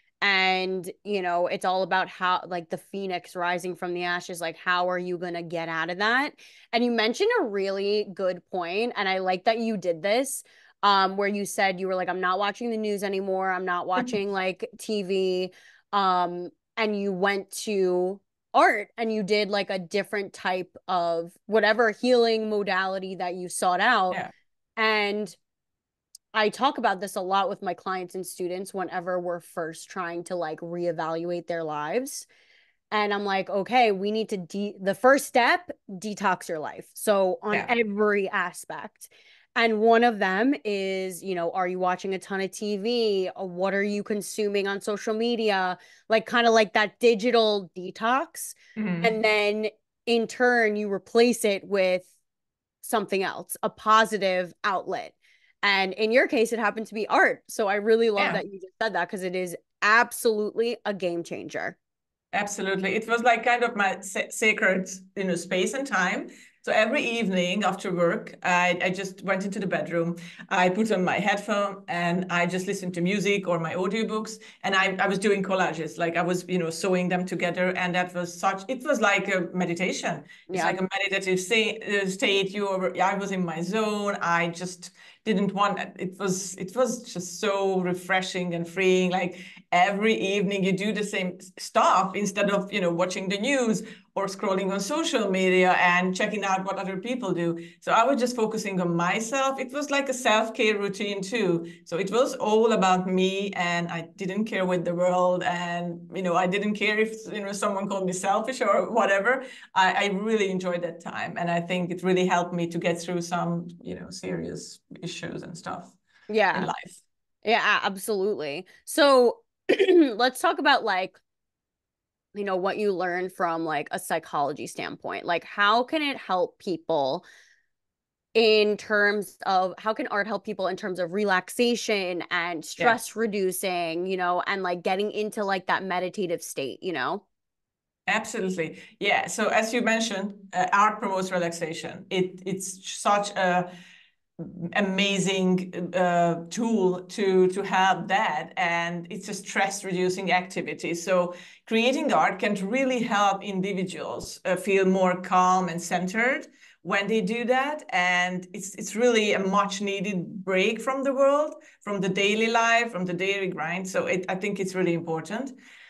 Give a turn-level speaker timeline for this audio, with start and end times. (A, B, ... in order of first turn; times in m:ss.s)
0:00.2-0:24.2 A
0:24.8-0:25.4 A
0:26.3-0:32.2 A
0:32.9-0:52.1 A
0:48.8-0:49.1 B
0:52.8-1:01.8 A
1:02.3-1:56.0 B
1:20.5-1:20.8 A
1:56.3-1:56.7 A
1:56.5-1:57.0 B
1:57.4-2:01.2 A
2:02.4-2:07.2 A
2:08.4-2:17.2 A
2:18.1-2:23.7 B
2:24.4-2:45.5 B